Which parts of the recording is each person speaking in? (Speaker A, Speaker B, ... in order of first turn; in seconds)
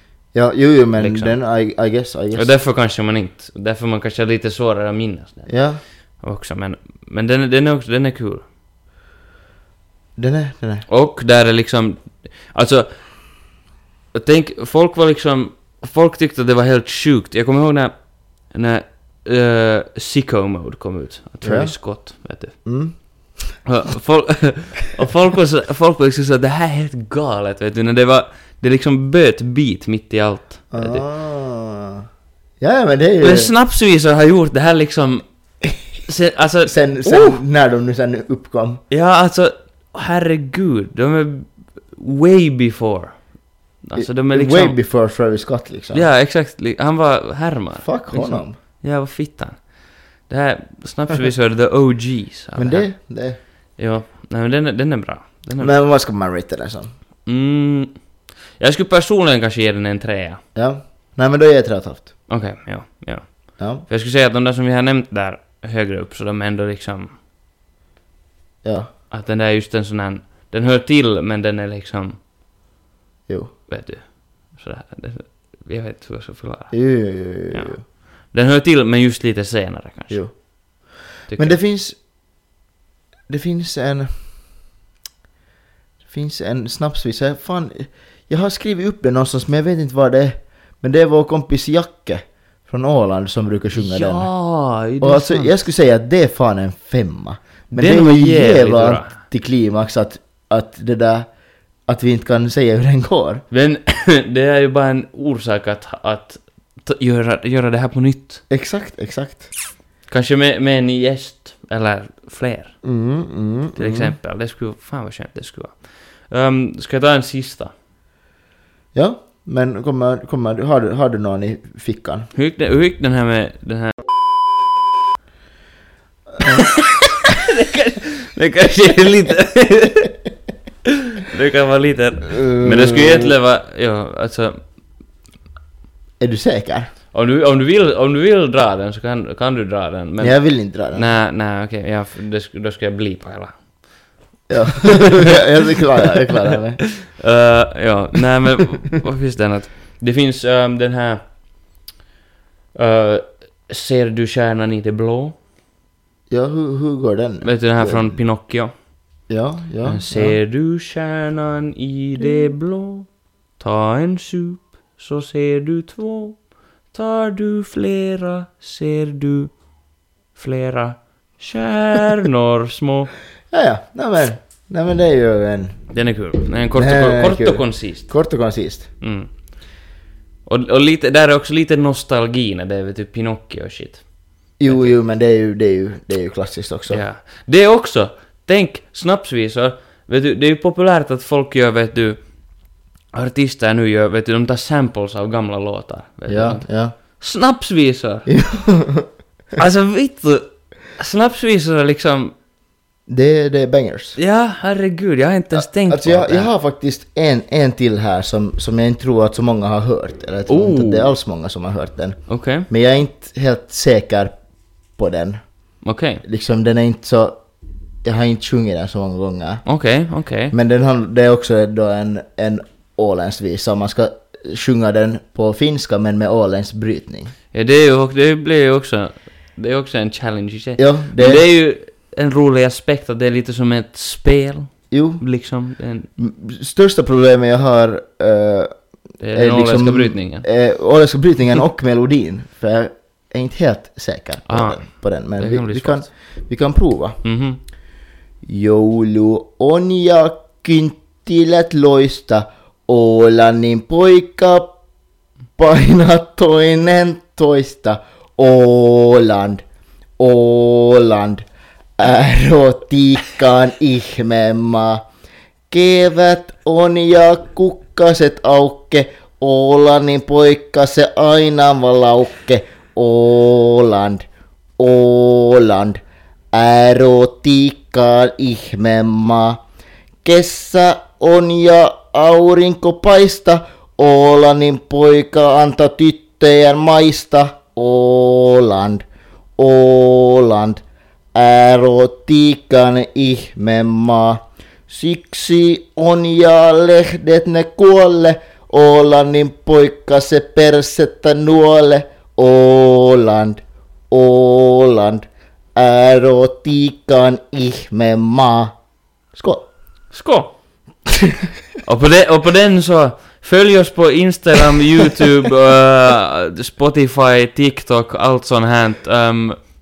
Speaker A: 0.3-2.5, 5.5-5.8, 10.2-10.8, 21.4-21.8, 22.6-23.6, 30.7-32.0, 32.6-33.5, 36.6-38.8, 44.0-46.1, 47.8-48.5, 52.5-53.4, 55.6-56.9, 60.5-62.1, 63.6-63.8, 68.6-68.9, 73.3-73.5, 76.7-77.8, 80.1-82.0, 83.3-84.1, 86.1-94.3, 95.0-101.3, 101.9-103.4, 108.5-109.5, 112.8-114.2, 118.9-122.3, 132.3-133.3, 136.2-136.9, 140.2-141.1, 144.5-146.9, 156.3-158.2, 159.3-160.4, 173.5-175.8, 176.7-178.9, 184.6-187.0, 196.3-196.9, 198.3-199.1, 203.1-204.2, 205.5-214.3, 214.9-215.4, 216.2-217.4, 218.0-219.6, 220.5-227.3, 230.8-231.4, 234.9-235.2, 236.2-238.7, 239.3-247.2, 248.4-254.8, 255.6-259.6, 260.2-261.4, 262.0-265.0, 265.7-274.2, 274.8-276.0, 276.5-279.6, 280.2-289.0, 289.6-290.8, 291.3-308.7, 309.3-309.7
Speaker B: 1.0-1.3, 2.3-5.5, 6.2-8.4, 10.9-13.3, 14.1-22.6, 23.6-31.0, 33.2-35.2, 36.0-37.4, 38.9-44.8, 45.9-52.9, 53.8-55.7, 57.2-58.0, 58.6-60.4, 62.3-67.1, 69.1-72.2, 73.7-76.8, 77.5-80.2, 81.3-81.6, 93.8-95.5, 97.7-99.2, 103.5-108.4, 110.1-112.7, 113.8-117.7, 122.3-124.0, 126.4-130.1, 131.1-134.6, 137.1-143.6, 144.9-145.2, 147.0-151.2, 152.7-155.3, 157.4-158.7, 159.8-166.4, 166.9-169.5, 170.3-173.1, 175.9-178.1, 179.0-179.3, 180.4-184.1, 186.9-192.2, 193.1-198.3, 199.6-202.3, 204.2-206.5, 210.5-211.1, 212.3-212.7, 215.8-216.2, 219.6-220.5, 227.5-236.1, 239.2-240.5, 244.5-246.1, 247.2-247.6, 310.1-310.5, 311.8-319.6